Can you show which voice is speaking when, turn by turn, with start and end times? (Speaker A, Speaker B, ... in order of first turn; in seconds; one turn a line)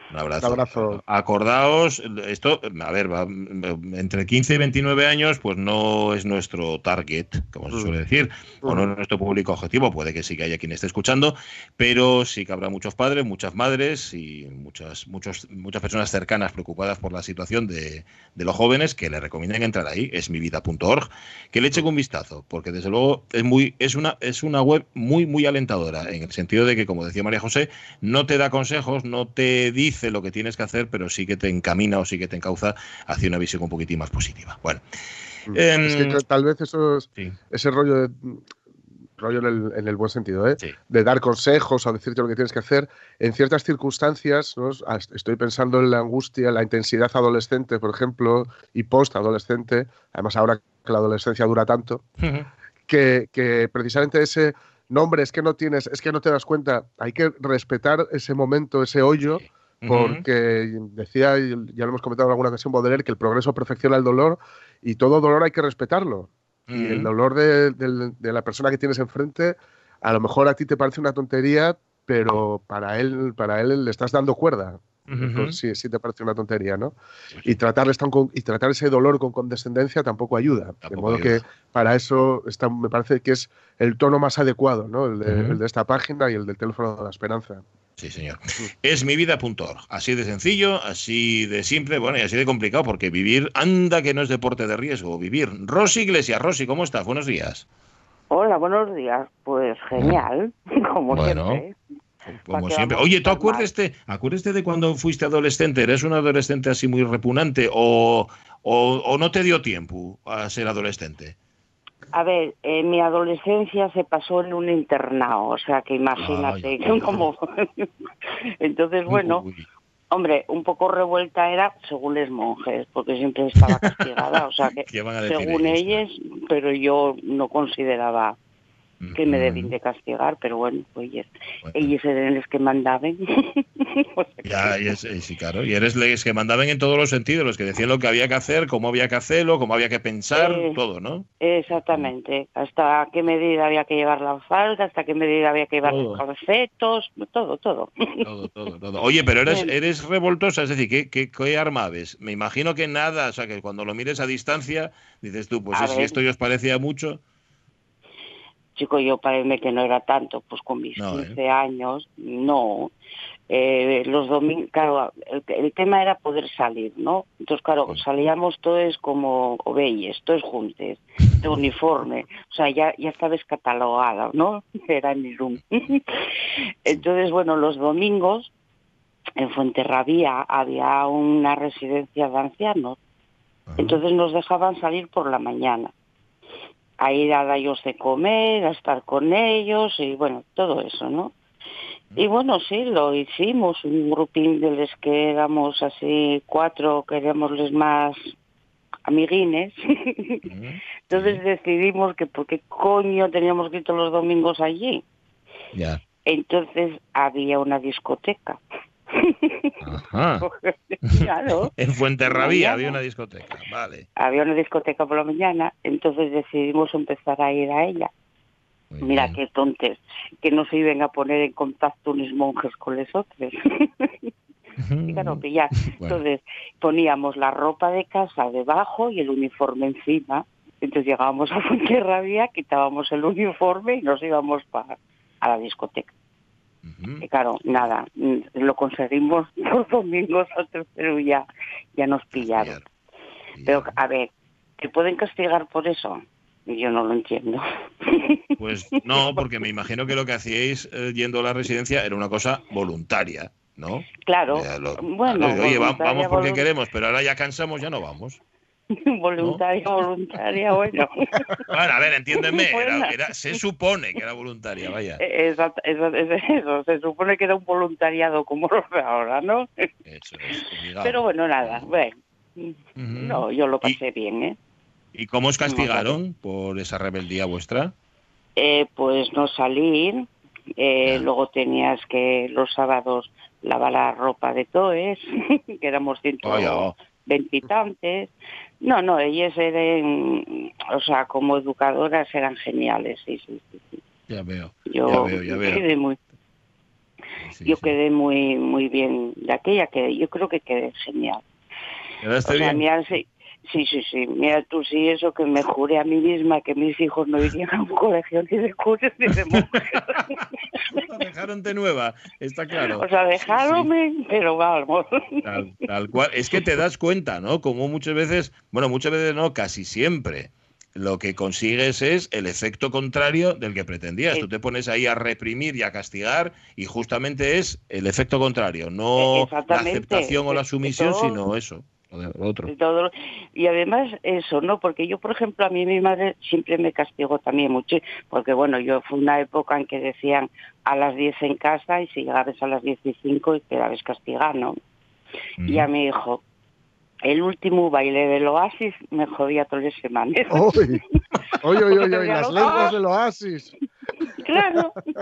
Speaker A: 0.1-34.8
Speaker B: 0.4-1.0
Speaker B: 35.5-38.4
Speaker A: 35.5-36.2
Speaker B: 39.2-52.0
Speaker A: 52.2-52.5
Speaker B: 52.9-87.6
Speaker A: 59.8-60.2
Speaker A: 66.7-67.1
Speaker A: 75.1-75.6
Speaker A: 80.8-81.4
Speaker A: 85.3-85.6
Speaker A: 88.0-97.7
Speaker C: 98.3-101.8
Speaker A: 100.0-100.2
Speaker A: 101.1-101.6
Speaker A: 102.3-111.3
Speaker C: 102.4-103.7
Speaker C: 112.1-117.9
Speaker A: 116.2-117.2
Speaker C: 118.6-119.4
Speaker A: 119.1-119.7
Speaker C: 120.1-128.4
Speaker A: 123.7-126.0
Speaker A: 129.0-129.7
Speaker C: 129.2-134.8
Speaker A: 131.6-131.9
Speaker A: 134.4-142.1
Speaker C: 140.3-140.8
Speaker C: 141.4-148.2
Speaker A: 145.8-146.2
Speaker A: 148.2-157.2
Speaker C: 149.5-149.7
Speaker C: 155.7-156.2
Speaker C: 158.8-162.9
Speaker A: 161.0-161.4
Speaker C: 163.5-176.0
Speaker C: 176.8-178.5
Speaker C: 179.4-183.0
Speaker A: 183.7-184.0
Speaker C: 183.8-185.9
Speaker C: 187.0-191.3
Speaker C: 192.2-198.2
Speaker C: 199.1-200.4
Speaker A: 200.5-201.4
Speaker C: 201.1-205.0
Speaker A: 205.7-206.0
Speaker C: 206.3-208.6
Speaker C: 209.1-209.7
Speaker A: 209.8-210.5
Speaker C: 210.4-211.7
Speaker A: 211.1-214.1
Speaker C: 212.2-213.0
Speaker C: 214.2-218.1
Speaker A: 218.9-219.4
Speaker C: 219.0-224.3
Speaker A: 224.8-225.4
Speaker C: 225.1-236.1
Speaker A: 226.0-226.2
Speaker A: 236.8-237.9
Speaker C: 237.2-241.5
Speaker C: 242.0-242.8
Speaker A: 242.3-242.8
Speaker A: 243.6-243.9
Speaker C: 243.7-248.4
Speaker A: 248.6-258.4
Speaker C: 249.2-249.4
Speaker C: 254.2-256.7
Speaker C: 258.9-261.7
Speaker A: 261.7-265.2
Speaker C: 262.4-263.1
Speaker C: 265.2-269.7
Speaker A: 270.1-271.9
Speaker C: 270.6-274.6
Speaker A: 273.0-274.0
Speaker A: 275.1-277.9
Speaker C: 275.7-276.2
Speaker C: 278.6-288.3
Speaker A: 286.4-286.9
Speaker C: 288.8-294.0
Speaker A: 294.3-295.9
Speaker C: 294.9-296.2
Speaker A: 297.4-297.9
Speaker C: 297.6-301.4
Speaker A: 302.2-302.8
Speaker C: 302.5-310.4
Speaker A: 309.6-313.9
Speaker C: 313.0-315.4
Speaker A: 315.4-332.7
Speaker C: 329.2-331.4
Speaker C: 332.7-344.8
Speaker A: 345.6-345.9
Speaker C: 345.7-346.4
Speaker C: 347.2-350.8
Speaker B: 350.5-351.0
Speaker B: 351.6-353.7
Speaker C: 352.0-353.0
Speaker C: 354.4-355.0